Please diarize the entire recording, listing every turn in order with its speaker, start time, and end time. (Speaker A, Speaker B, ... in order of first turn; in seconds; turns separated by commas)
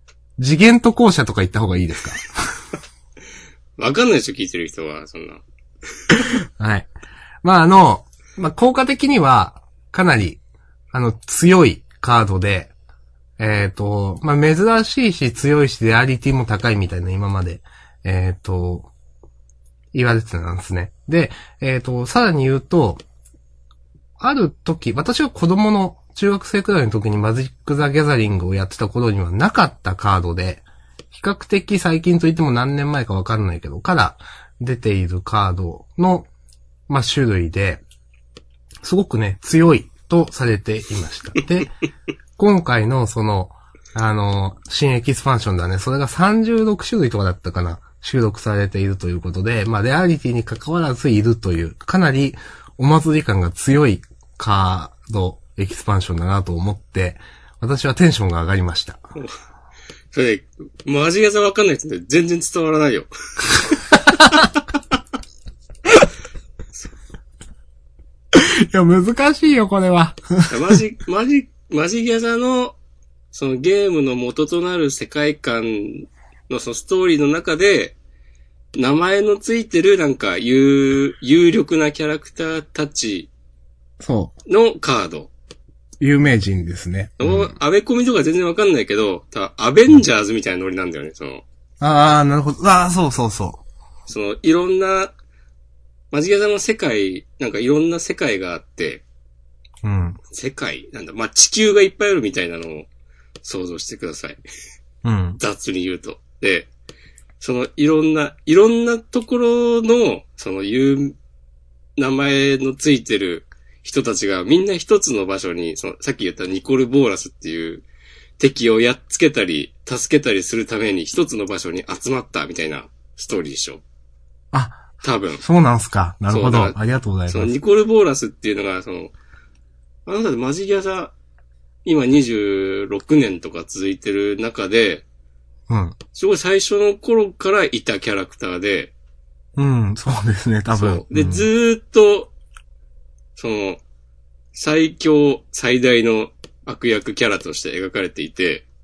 Speaker A: 0.4-2.4, Speaker B: 3.8-5.4, Speaker A: 6.2-6.9, Speaker A: 7.4-10.4, Speaker A: 10.9-12.7, Speaker A: 13.4-18.9, Speaker A: 19.9-23.0, Speaker A: 24.2-36.3, Speaker A: 36.9-37.8, Speaker A: 38.8-41.7, Speaker A: 42.4-59.0, Speaker B: 60.1-63.8, Speaker A: 63.9-64.5, Speaker A: 68.3-70.8, Speaker B: 70.5-72.8, Speaker B: 73.3-78.0, Speaker B: 78.7-83.3, Speaker A: 84.0-84.3, Speaker B: 84.5-85.3, Speaker A: 86.0-87.5, Speaker B: 87.2-91.4, Speaker A: 91.8-93.6, Speaker B: 94.1-95.1, Speaker B: 96.1-99.0, Speaker A: 99.8-100.2, Speaker B: 100.3-102.9, Speaker B: 103.4-104.4, Speaker A: 105.0-105.4, Speaker B: 105.4-106.7, Speaker B: 107.4-111.2, Speaker B: 112.0-117.8, Speaker B: 118.4-123.8, Speaker A: 124.5-127.5, Speaker B: 125.0-125.4, Speaker B: 126.3-126.8, Speaker B: 127.3-129.1, Speaker B: 130.1-131.1, Speaker B: 131.8-135.0, Speaker A: 135.7-136.0, Speaker B: 136.1-138.9, Speaker A: 139.6-141.5, Speaker B: 140.7-142.3, Speaker B: 143.3-143.8, Speaker B: 144.5-148.6